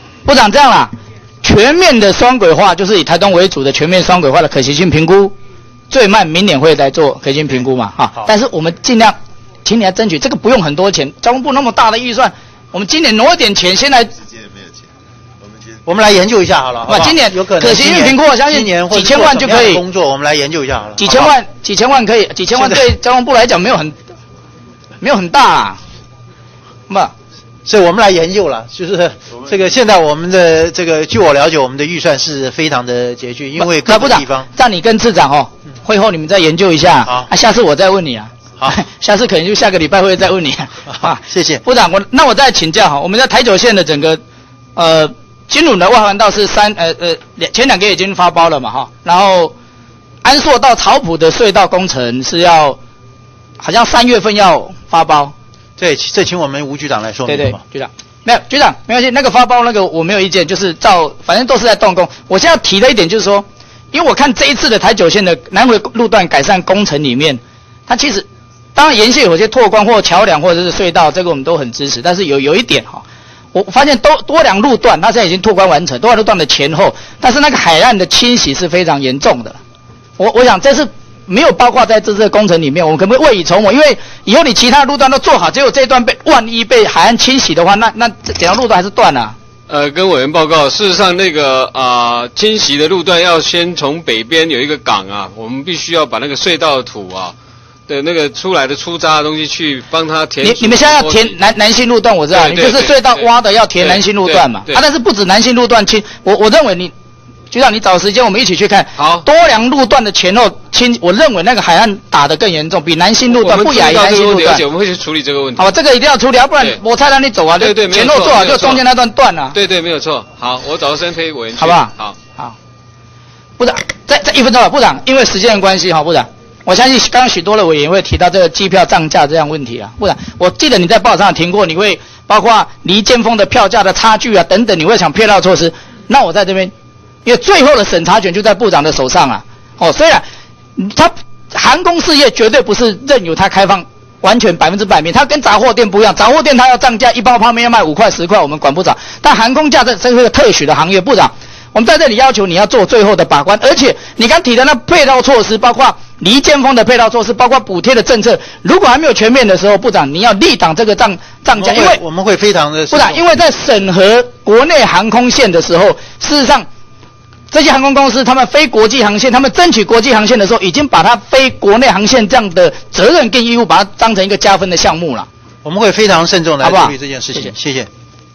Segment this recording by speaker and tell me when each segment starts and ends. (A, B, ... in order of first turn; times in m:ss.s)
0:00.3-0:05.3 A
0:05.9-0:14.1 A
0:15.8-0:21.3 B
0:16.9-0:19.8 A
0:21.0-0:24.0 A
0:22.5-0:22.9 B
0:25.0-0:25.8 A
0:27.7-0:34.5 B
0:33.6-0:44.2 A
0:41.0-0:41.6 B
0:44.8-0:49.5 A
0:50.2-0:52.8 A
0:53.6-0:55.3 A
0:55.8-0:57.6 B
0:57.3-1:19.6 A
1:20.2-1:29.4 A
1:29.7-1:37.3 C
1:37.9-1:41.3 C
1:40.4-1:46.9 A
1:42.3-1:43.3 C
1:43.8-1:44.8 C
1:47.5-1:54.6 A
1:49.0-1:49.2 C
1:53.3-1:55.7 C
1:55.6-1:59.6 A
1:57.6-1:58.8 C
1:59.5-2:02.2 C
2:01.6-2:02.5 A
2:03.6-2:16.7 A
2:17.2-2:20.2 A
2:20.8-2:42.0 A
2:41.6-2:43.3 B
2:42.9-2:46.7 A
2:47.5-2:55.3 A
2:55.6-2:57.9 B
2:56.6-2:57.5 A